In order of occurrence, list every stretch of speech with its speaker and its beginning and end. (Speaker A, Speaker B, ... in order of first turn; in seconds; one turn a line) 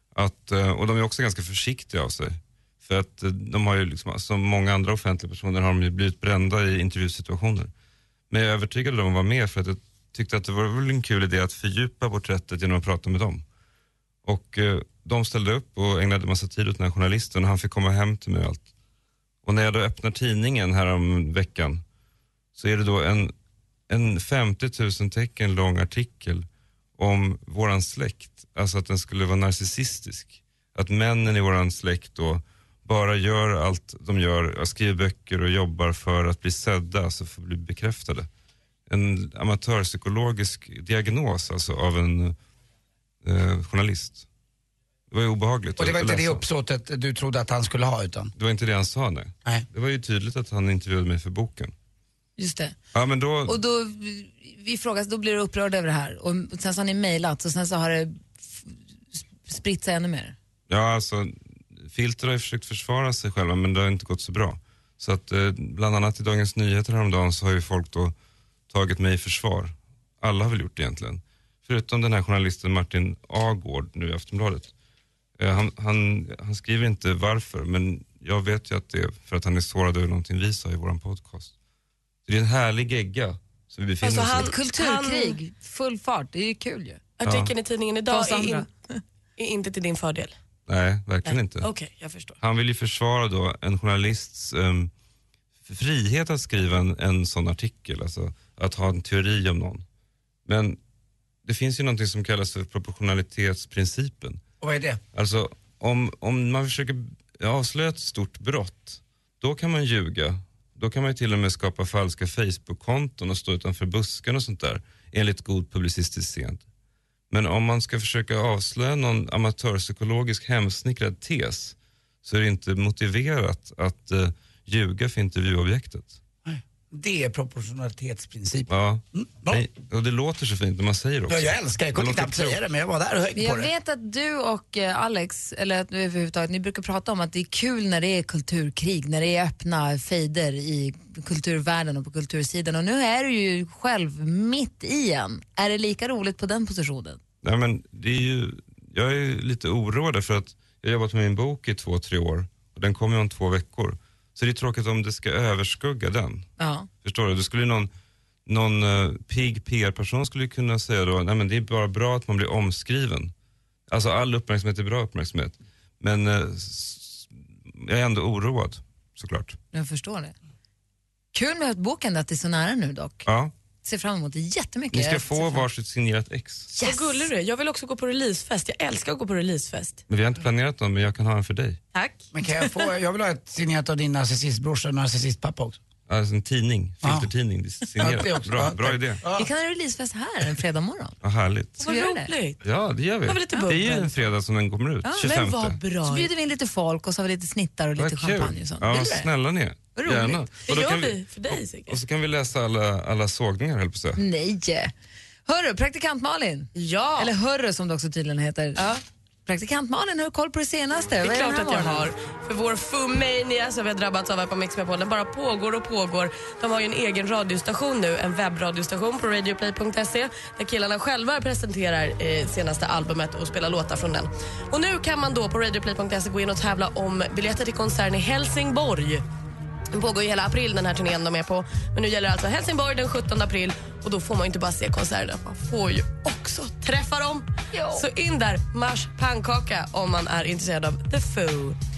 Speaker A: 0.1-7.7
Speaker A: 8.3-13.4
Speaker A: 14.2-18.7
Speaker A: 19.4-21.8
Speaker A: 22.6-23.3
Speaker A: 23.9-26.5
Speaker A: 27.0-38.3
Speaker A: 38.9-42.4
Speaker A: 43.2-44.2
Speaker A: 45.1-46.4
Speaker B: 45.8-48.3
Speaker A: 48.4-51.7
Speaker C: 52.4-52.8
Speaker A: 52.9-53.6
Speaker C: 53.5-60.4
Speaker A: 60.7-68.1
Speaker A: 68.7-74.7
Speaker A: 75.4-81.5
Speaker A: 82.3-84.5
Speaker D: 84.0-85.4
Speaker C: 84.5-87.0
Speaker D: 87.2-88.7
Speaker A: 87.2-87.5
Speaker C: 88.1-89.0
Speaker D: 89.4-90.3
Speaker A: 90.7-91.7
Speaker D: 91.3-92.4
Speaker A: 92.4-94.9
Speaker A: 95.7-99.8
Speaker A: 100.5-100.8
Speaker A: 101.5-104.4
Speaker B: 104.6-105.0
Speaker A: 105.1-116.6
Speaker A: 117.3-126.2
Speaker B: 126.5-129.6
Speaker A: 128.7-132.6
Speaker B: 131.3-133.7
Speaker C: 133.4-147.2
Speaker A: 147.4-156.5
Speaker C: 156.6-156.9
Speaker A: 157.0-157.9
Speaker A: 158.5-163.3
Speaker A: 163.9-169.6
Speaker C: 169.7-170.3
Speaker C: 171.3-173.3
Speaker A: 173.2-173.5
Speaker C: 173.8-175.7
Speaker A: 174.9-176.7
Speaker C: 176.8-177.3
Speaker D: 176.8-180.0
Speaker A: 180.1-181.8
Speaker B: 182.3-185.8
Speaker A: 186.1-189.2
Speaker B: 187.0-187.3
Speaker B: 188.0-189.5
Speaker C: 189.3-191.2
Speaker A: 191.2-191.8
Speaker C: 191.8-192.3
Speaker D: 191.8-192.6
Speaker A: 192.6-195.8
Speaker D: 193.3-194.1
Speaker C: 195.0-199.3
Speaker D: 195.2-196.3
Speaker A: 198.0-201.2
Speaker C: 199.9-200.4
Speaker D: 200.7-202.0
Speaker A: 201.9-204.2
Speaker C: 204.2-204.9
Speaker C: 205.5-208.8
Speaker D: 206.8-207.3
Speaker C: 209.5-212.1
Speaker D: 211.2-229.2
Speaker D: 229.9-241.8
Speaker C: 237.7-238.0